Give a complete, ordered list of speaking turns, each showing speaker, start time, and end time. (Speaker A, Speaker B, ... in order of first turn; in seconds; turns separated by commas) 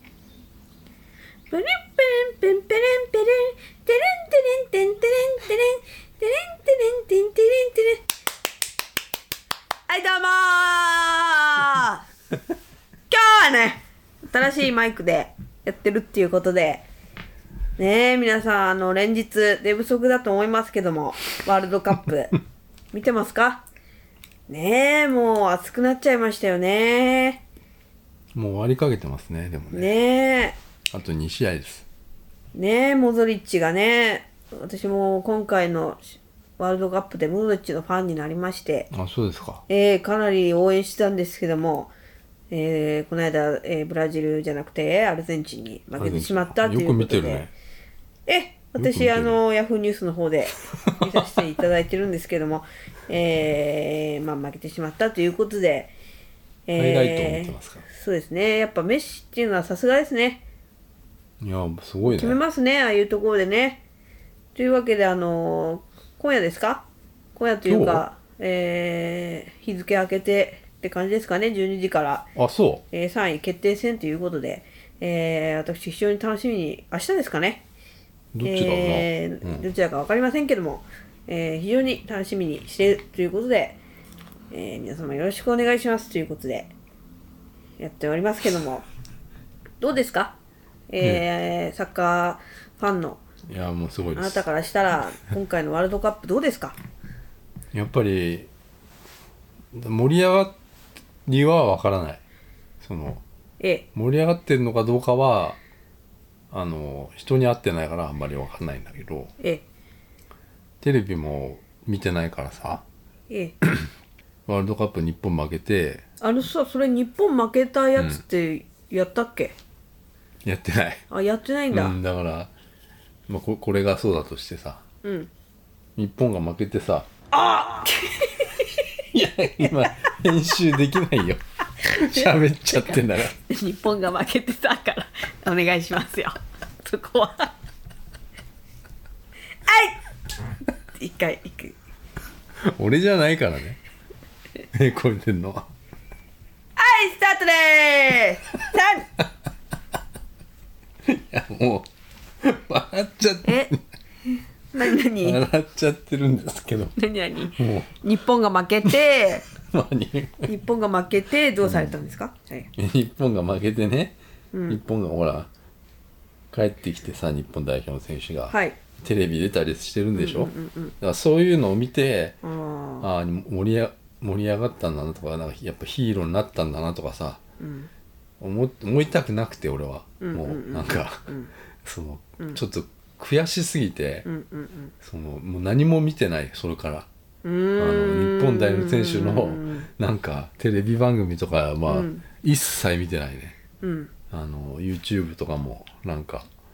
Speaker A: 1.5-8.0, Speaker A: 9.9-12.0, Speaker A: 13.1-16.8, Speaker A: 17.8-22.4, Speaker A: 22.9-23.6, Speaker A: 24.5-27.4, Speaker B: 28.3-29.9, Speaker A: 29.7-30.6, Speaker B: 30.9-31.9, Speaker A: 32.5-38.9, Speaker B: 38.9-39.6, Speaker A: 39.7-41.9, Speaker A: 42.5-47.5, Speaker B: 46.0-47.5, Speaker A: 48.3-55.9, Speaker B: 48.8-49.4, Speaker B: 50.8-51.4, Speaker A: 56.7-60.4, Speaker B: 56.7-57.8, Speaker B: 61.4-62.4, Speaker A: 62.1-63.8, Speaker A: 64.5-72.3, Speaker B: 67.7-68.0, Speaker B: 72.3-72.8, Speaker A: 72.9-77.6, Speaker B: 78.3-79.6, Speaker A: 78.4-83.8, Speaker A: 84.5-86.7, Speaker A: 87.8-88.8, Speaker A: 89.8-90.4, Speaker A: 90.9-93.2, Speaker B: 93.5-94.5, Speaker A: 94.1-96.8, Speaker B: 97.7-98.5, Speaker B: 99.7-100.6, Speaker B: 101.2-102.2, Speaker B: 102.8-103.2, Speaker A: 103.6-103.8, Speaker B: 103.9-105.6, Speaker B: 106.5-109.3, Speaker A: 109.4-109.6, Speaker B: 110.8-112.8, Speaker A: 113.3-113.5, Speaker B: 114.5-116.0, Speaker A: 116.2-119.5, Speaker B: 120.4-121.0, Speaker A: 121.1-122.0, Speaker B: 121.7-122.5, Speaker B: 123.3-124.8, Speaker A: 125.0-125.3, Speaker B: 126.0-127.1, Speaker A: 127.3-129.0, Speaker B: 129.1-133.3, Speaker A: 129.6-129.9, Speaker A: 131.8-137.5, Speaker A: 139.6-140.0, Speaker A: 140.9-141.7, Speaker B: 142.6-143.8, Speaker B: 144.7-145.7, Speaker A: 146.8-149.1, Speaker B: 151.0-151.9, Speaker B: 152.4-153.8, Speaker A: 153.4-153.7, Speaker A: 154.7-155.4, Speaker B: 154.9-156.9, Speaker A: 156.9-159.5, Speaker B: 157.5-158.0, Speaker B: 158.9-160.5, Speaker A: 160.4-162.7, Speaker B: 161.6-162.0, Speaker B: 162.8-164.1, Speaker A: 164.5-164.8, Speaker B: 164.7-165.5, Speaker B: 166.5-172.4, Speaker A: 168.5-168.8, Speaker A: 170.1-170.9, Speaker A: 172.4-173.1, Speaker B: 173.0-177.4, Speaker A: 177.6-177.9, Speaker B: 178.4-181.3, Speaker A: 180.2-181.5, Speaker B: 181.8-184.2, Speaker A: 184.2-184.9, Speaker B: 185.0-187.1, Speaker A: 187.4-189.9, Speaker B: 187.8-193.6, Speaker A: 191.9-192.2, Speaker A: 193.8-194.1, Speaker B: 194.3-196.5